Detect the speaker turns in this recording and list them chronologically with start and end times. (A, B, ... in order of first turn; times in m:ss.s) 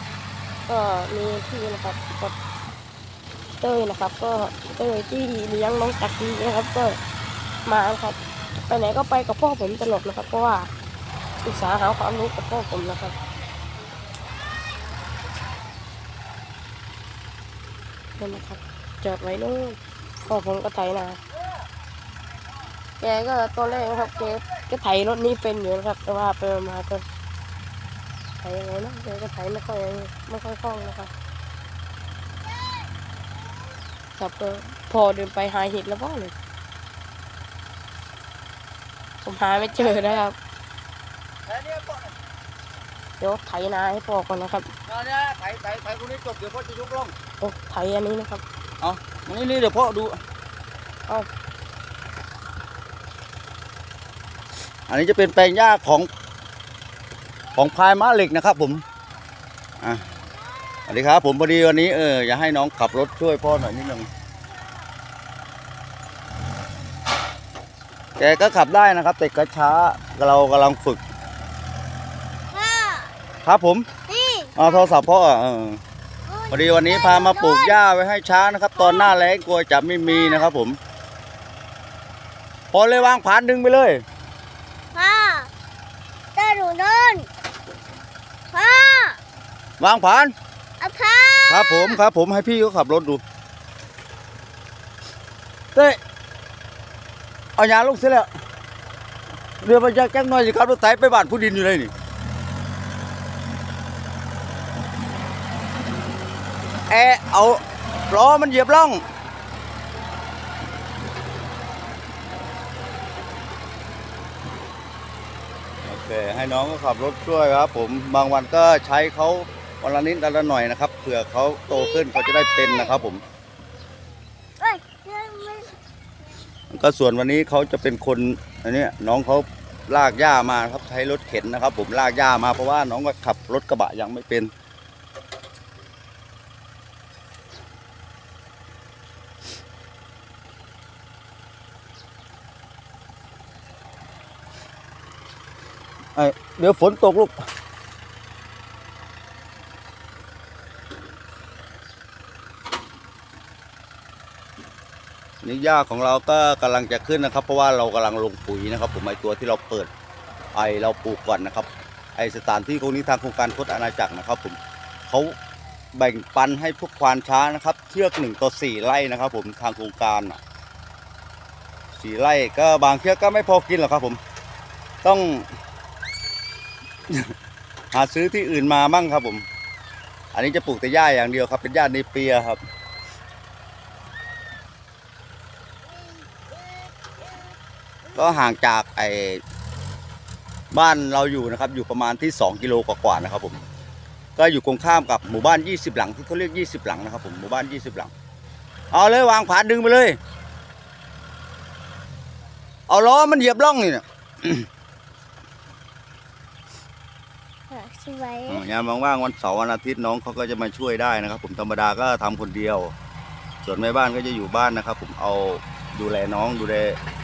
0:00.7-0:02.4 A
0:03.6-0:07.0 A
0:07.6-0:08.2 A
0:08.7-0:10.7 A
0:11.4-0:13.2 A
0:18.2-0:21.2 A
0:23.0-0:27.0 A
0:28.4-0:31.1 A
0:34.2-0:36.3 A
0:39.2-0:40.4 A
0:41.5-0:42.2 B
0:43.2-0:44.7 A
0:44.9-0:47.1 B
0:47.4-0:48.4 A
0:48.8-0:50.2 B
0:54.9-0:56.1 B
0:57.6-0:58.8 B
1:00.9-1:04.1 B
1:08.2-1:11.0 B
1:12.5-1:13.1 C
1:13.4-1:13.9 B
1:14.1-1:14.7 C
1:14.6-1:15.8 B
1:16.3-1:17.8 C
1:16.5-1:20.8 B
1:18.8-1:19.1 C
1:22.7-1:24.0 B
1:24.9-1:25.5 C
1:26.4-1:27.3 C
1:28.5-1:29.2 C
1:29.8-1:30.3 B
1:30.8-1:32.0 C
1:31.5-1:33.2 B
1:37.6-1:38.3 B
1:39.6-1:41.9 B
1:46.9-1:49.0 B
1:55.8-2:03.2 B
2:01.7-2:02.9 C
2:04.6-2:05.7 C
2:06.7-2:14.5 B
2:26.2-2:27.4 B
2:35.4-2:39.9 B
2:40.5-2:44.6 B
2:45.1-2:45.4 B
2:46.0-2:50.4 B
2:52.0-2:54.2 B
2:55.0-2:55.5 B
2:57.9-2:59.4 B
3:00.3-3:02.6 B
3:08.2-3:09.4 B
3:10.7-3:13.6 B
3:14.4-3:18.1 B
3:18.9-3:20.2 B
3:22.9-3:24.6 B
3:27.7-3:28.6 C
3:28.5-3:32.9 B
3:33.6-3:37.0 B